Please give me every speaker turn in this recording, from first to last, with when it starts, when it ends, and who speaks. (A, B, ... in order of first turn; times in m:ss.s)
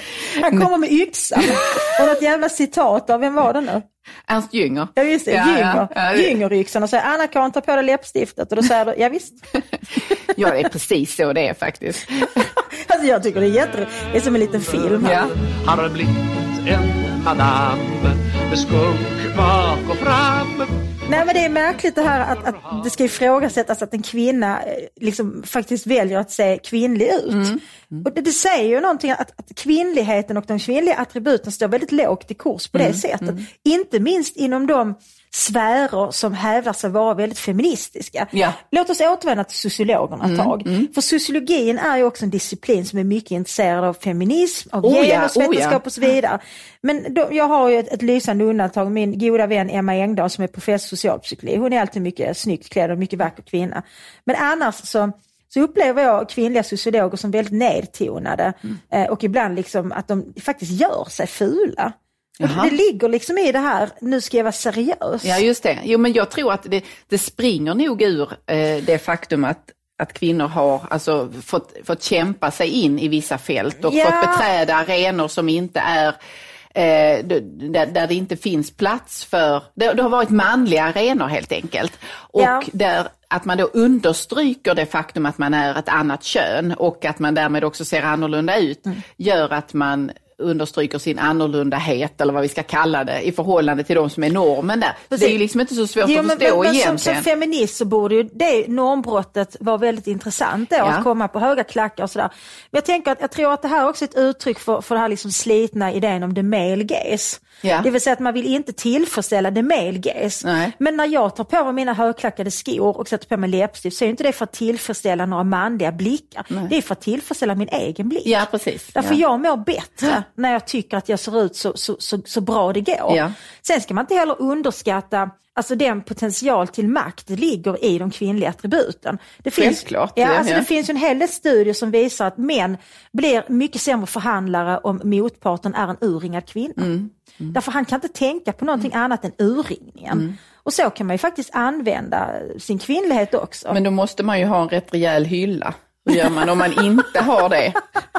0:00.3-0:03.8 A
0:04.3-0:06.4 B
0:05.0-0:09.4 A
0:10.3-0:12.5 B
0:12.7-0:15.2 A
0:15.0-0:15.3 B
0:15.1-0:21.4 C
0:21.1-1:05.4 A
0:27.3-0:28.0 B
0:32.8-0:33.4 B
0:40.2-0:40.9 B
0:44.8-0:45.8 B
1:02.4-1:02.7 B
1:05.2-1:16.2 B
1:13.8-1:14.5 A
1:16.7-1:37.2 B
1:22.4-1:22.7 A
1:36.0-2:16.9 A
1:40.8-1:41.0 B
1:50.4-1:50.7 B
1:58.2-1:59.2 B
2:03.1-2:03.3 B
2:09.6-2:10.7 B
2:16.8-2:17.5 B
2:17.5-2:23.8 A
2:23.7-2:27.8 B